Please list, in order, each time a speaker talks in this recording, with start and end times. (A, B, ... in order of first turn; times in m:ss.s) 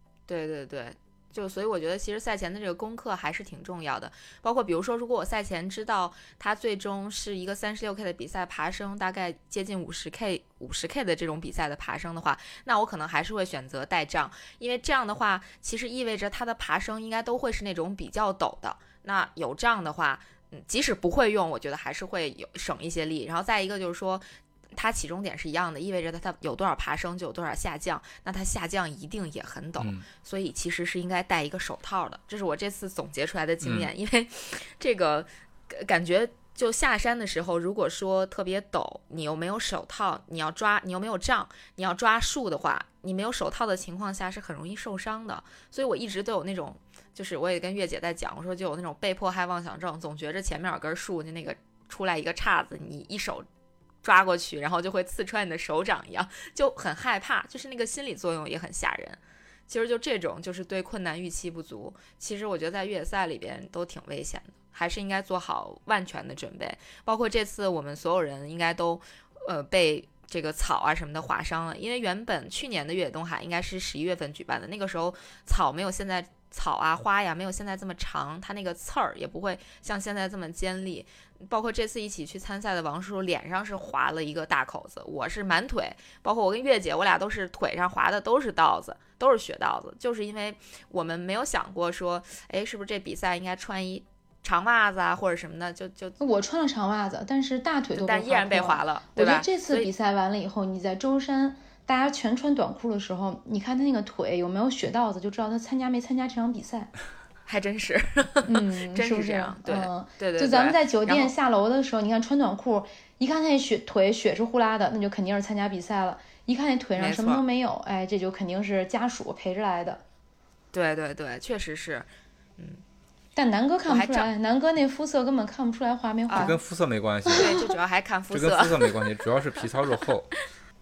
0:00.3-0:53.4 A
0:29.8-0:30.1 B
0:33.6-0:33.9 B
0:54.0-1:36.2 A
1:36.2-1:46.9 C
1:37.9-1:39.9 A
1:47.4-1:51.3 A
1:48.5-2:00.0 C
1:57.0-1:57.4 A
2:00.7-2:02.8 A
2:03.4-2:06.6 C
2:03.9-2:04.3 A
2:06.3-2:06.6 A
2:06.3-2:07.5 B
2:07.3-2:09.0 A
2:08.3-2:10.3 B